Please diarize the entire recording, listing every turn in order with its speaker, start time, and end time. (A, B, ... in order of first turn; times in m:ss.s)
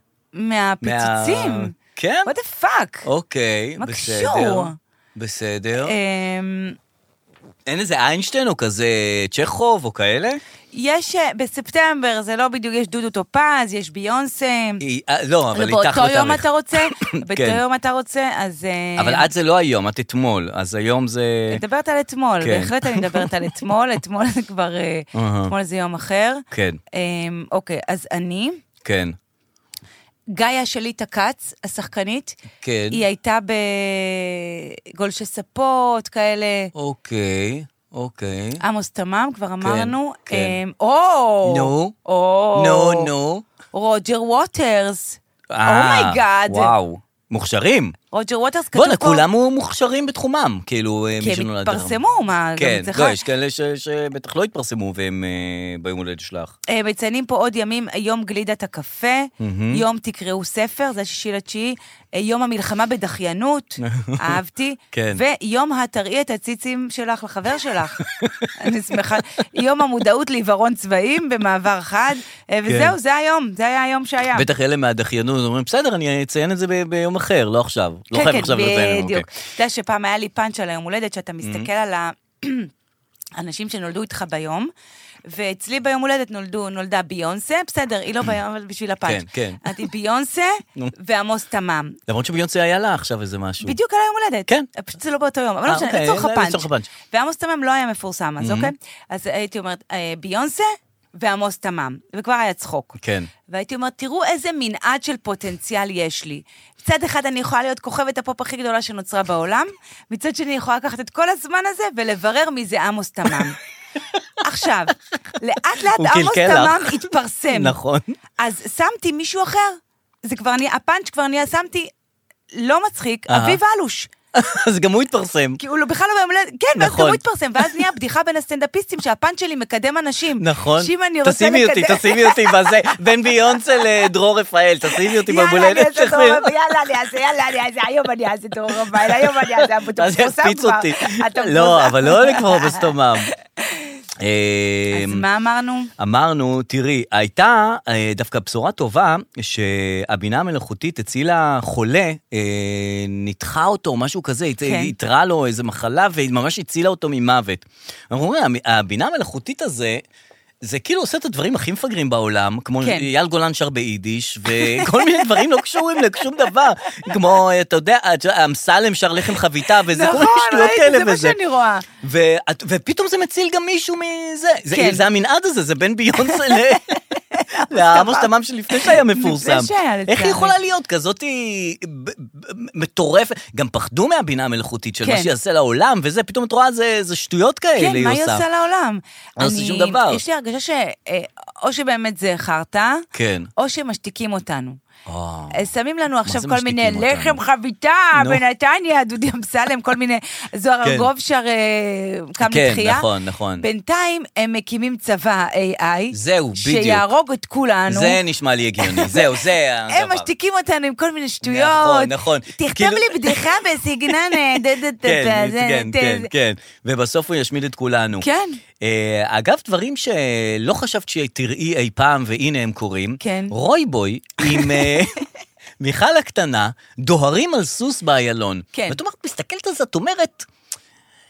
0:00.3-0:01.8 A
0:00.8-0:02.3 B
0:02.3-0:03.1 A
0:03.0-0:06.0 B
0:03.8-0:04.8 A
0:05.8-0:06.8 A
0:07.7-0:10.4 B
0:10.7-0:14.8 A
0:14.8-0:17.6 B
0:15.5-0:19.3 A
0:19.0-0:21.6 B
0:21.5-0:28.6 A
0:22.4-0:23.3 B
0:25.1-0:25.5 B
0:26.5-0:26.8 B
0:28.8-0:29.2 B
0:30.3-0:32.4 A
0:32.6-0:33.0 B
0:32.9-0:36.7 A
0:36.8-0:38.6 B
0:38.6-0:43.1 A
0:39.6-0:40.6 B
0:41.4-0:42.0 B
0:42.5-0:43.4 B
0:43.7-0:46.7 A
0:45.5-0:48.0 B
0:48.1-0:49.2 A
0:48.8-0:52.0 B
0:51.2-0:53.2 A
0:52.6-0:56.5 B
0:56.7-1:08.0 A
0:59.4-0:59.8 B
1:03.8-1:04.4 B
1:04.9-1:05.2 B
1:08.0-1:08.5 B
1:08.6-1:14.5 A
1:12.7-1:13.0 B
1:14.3-1:19.3 B
1:18.1-1:22.7 A
1:21.4-1:21.7 B
1:23.4-1:24.7 A
1:25.3-1:32.0 A
1:29.0-1:29.8 B
1:32.1-1:33.8 B
1:33.6-1:43.0 A
1:35.7-1:36.9 B
1:38.4-1:38.7 B
1:43.0-1:43.3 B
1:43.5-1:53.6 A
1:54.4-1:57.8 A
1:56.0-1:58.2 B
1:58.4-2:01.9 A
2:02.5-2:04.1 A
2:03.3-2:03.6 B
2:04.3-2:05.6 B
2:05.6-2:12.7 A
2:06.8-2:07.8 B
2:10.4-2:16.5 B
2:15.0-2:23.0 A
2:18.9-2:23.3 B
2:24.2-2:25.2 B
2:24.9-2:25.9 A
2:26.0-2:40.0 B
2:34.6-2:34.9 A
2:40.6-2:51.4 B
2:42.8-2:43.1 A
2:44.6-2:45.4 A
2:49.9-2:51.9 A
2:52.0-2:57.0 B
2:54.7-2:55.0 A
2:56.3-2:56.8 A
2:57.3-3:00.6 A
2:57.6-3:08.4 B
3:05.0-3:05.3 A
3:07.8-3:13.1 A
3:09.4-3:10.2 B
3:13.1-3:13.5 B
3:13.6-3:14.8 A
3:15.1-3:15.7 B
3:15.5-3:23.1 A
3:16.2-3:17.4 B
3:18.2-3:18.4 B
3:20.8-3:21.1 B
3:22.4-3:23.7 B
3:23.6-3:28.2 A
3:26.1-3:27.1 B
3:27.9-3:30.3 B
3:28.8-3:36.3 A
3:31.4-3:33.6 B
3:34.1-3:38.3 B
3:38.2-3:38.6 A
3:38.8-3:45.1 B
3:43.2-3:43.6 A
3:44.4-3:45.0 A
3:45.8-3:50.5 B
3:48.7-3:49.0 A